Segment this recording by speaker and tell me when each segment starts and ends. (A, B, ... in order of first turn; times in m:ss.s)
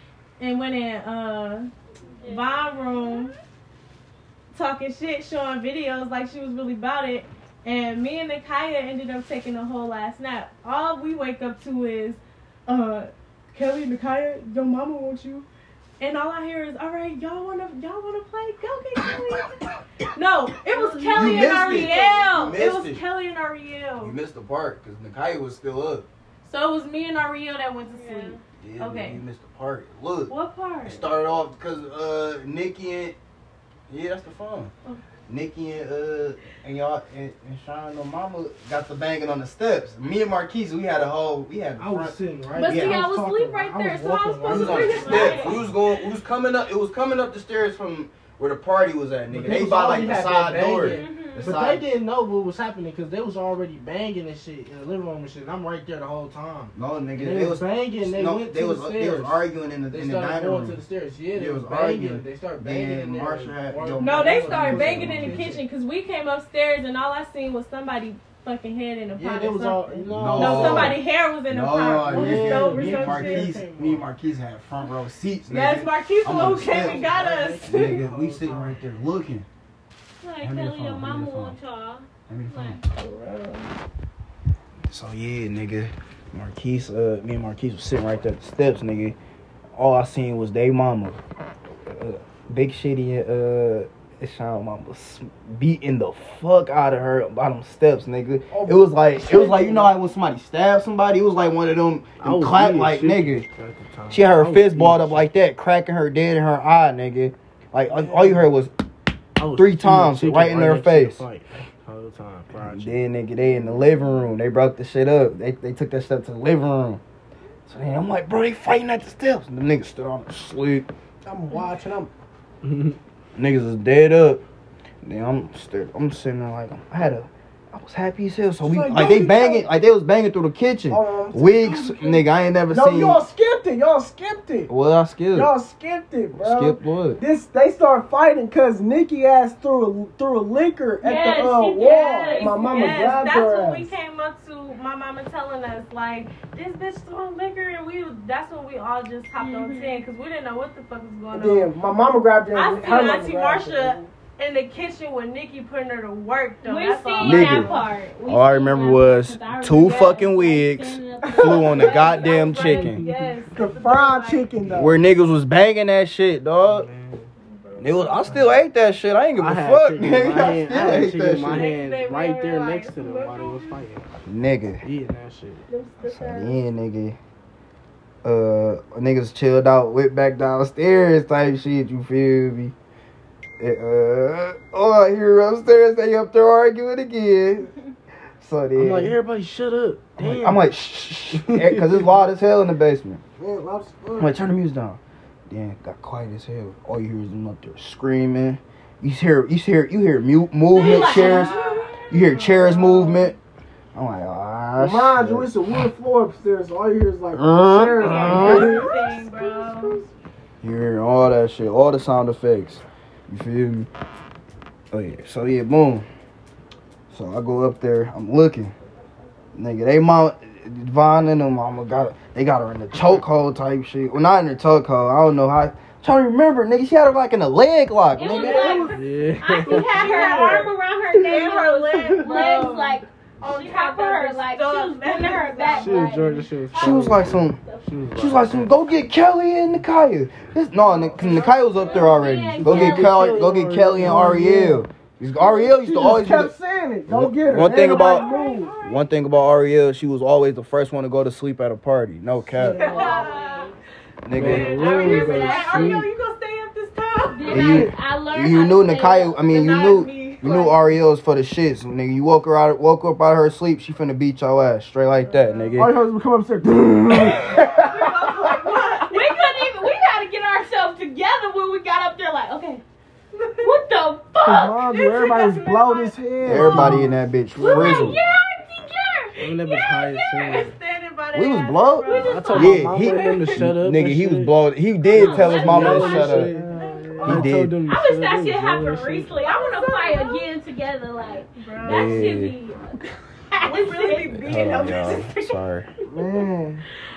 0:00.4-0:01.7 A
0:02.2-0:03.4 B
0:02.2-0:03.3 A
0:04.5-0:15.5 A
0:16.0-0:19.6 A
0:20.1-0:24.2 A
0:20.7-0:22.6 B
0:21.1-0:23.0 C
0:24.0-0:26.1 C
0:26.4-0:29.2 A
0:27.9-0:28.4 B
0:28.6-0:30.3 C
0:30.3-0:31.0 A
0:30.8-0:33.2 C
0:33.9-0:34.7 C
0:35.3-0:43.0 C
0:41.8-0:45.6 D
0:42.6-0:45.6 B
0:44.5-0:45.6 A
0:44.5-0:51.9 C
0:49.3-1:05.6 D
0:50.8-0:51.6 B
0:56.8-1:00.8 C
1:01.4-1:05.5 C
1:04.0-1:13.5 A
1:09.1-1:11.0 D
1:10.1-1:17.1 C
1:12.1-1:14.1 D
1:15.5-1:18.1 A
1:16.4-1:18.8 D
1:17.6-1:19.5 C
1:20.2-1:22.9 B
1:20.4-1:21.6 C
1:22.3-1:22.8 C
1:24.9-1:29.2 C
1:29.8-1:31.2 C
1:31.8-1:43.4 C
1:38.5-1:39.9 E
1:42.2-1:45.3 D
1:44.1-1:48.7 C
1:47.9-1:48.5 D
1:49.4-1:53.0 D
1:49.5-1:51.2 C
1:52.6-1:57.0 C
1:57.7-2:00.9 C
2:01.2-2:02.1 E
2:02.6-2:03.0 D
2:03.4-2:04.4 C
2:05.0-2:13.2 C
2:08.6-2:09.7 E
2:10.9-2:14.7 E
2:14.7-2:15.5 C
2:15.3-2:23.9 E
2:16.4-2:17.2 C
2:21.0-2:23.0 B
2:21.8-2:31.7 A
2:29.4-2:30.0 B
2:31.3-2:34.1 E
2:32.5-2:37.9 A
2:36.6-2:42.3 B
2:37.2-2:37.7 C
2:38.3-2:43.0 C
2:41.5-2:44.5 A
2:42.5-2:43.4 D
2:43.5-2:45.0 E
2:44.7-2:46.9 C
2:46.6-2:47.3 D
2:47.4-2:48.4 A
2:47.8-2:51.7 C
2:48.2-2:48.6 D
2:49.4-2:54.1 D
2:51.4-2:53.8 A
2:54.2-2:54.8 C
2:54.8-2:55.6 D
2:55.7-2:56.6 A
2:56.0-2:57.2 C
2:58.2-3:02.8 C
3:03.6-3:07.7 C
3:08.4-3:09.2 C
3:08.8-3:10.6 D
3:10.2-3:13.2 C
3:11.3-3:12.1 D
3:13.4-3:14.4 E
3:14.2-3:23.4 C
3:20.7-3:22.1 B
3:20.8-3:23.3 A
3:23.9-3:25.5 C
3:24.8-3:30.0 E
3:27.3-3:28.8 C
3:28.0-3:30.1 A
3:28.2-3:28.7 D
3:30.6-3:33.9 C
3:34.9-3:36.1 C
3:37.1-3:38.7 C
3:39.6-3:48.8 C
3:48.1-3:57.9 B
3:48.3-3:48.9 A
3:48.4-3:50.7 D
3:49.6-3:56.4 A
3:55.7-3:58.8 D
3:56.8-3:57.6 C
3:58.2-4:06.5 C
4:00.8-4:02.2 A
4:01.7-4:03.3 B
4:02.6-4:04.4 D
4:04.0-4:04.9 E
4:05.4-4:08.8 E
4:07.1-4:08.3 C
4:07.7-4:09.1 A
4:08.8-4:12.8 C
4:12.5-4:13.3 E
4:12.7-4:13.7 A
4:12.7-4:13.8 B
4:14.2-4:14.8 C
4:14.3-4:16.1 D
4:14.4-4:17.8 A
4:14.5-4:16.1 B
4:17.2-4:19.8 B
4:17.5-4:26.0 C
4:17.6-4:17.9 E
4:19.3-4:20.9 A
4:25.3-4:25.8 A
4:25.8-4:28.9 E
4:27.6-4:29.4 A
4:29.0-4:32.8 B
4:33.4-4:33.8 A
4:33.6-4:35.0 B
4:34.4-4:37.2 E
4:34.9-4:36.7 A
4:36.4-4:38.2 C
4:36.6-4:37.1 D
4:37.6-4:40.0 B
4:37.6-4:38.2 A
4:39.4-4:40.7 D
4:39.7-4:43.7 A
4:41.3-4:46.5 C
4:42.1-4:42.5 B
4:42.2-4:44.5 D
4:45.1-4:49.3 D
4:45.1-4:46.3 B
4:46.4-4:47.4 E
4:46.8-4:47.4 A
4:47.2-4:47.8 C
4:47.9-4:53.0 B
4:49.4-4:50.5 A
4:51.6-4:52.4 A
4:51.8-4:52.6 C
4:53.5-4:55.0 B
4:53.6-4:55.6 A
4:54.3-4:55.9 C
4:56.1-4:56.8 E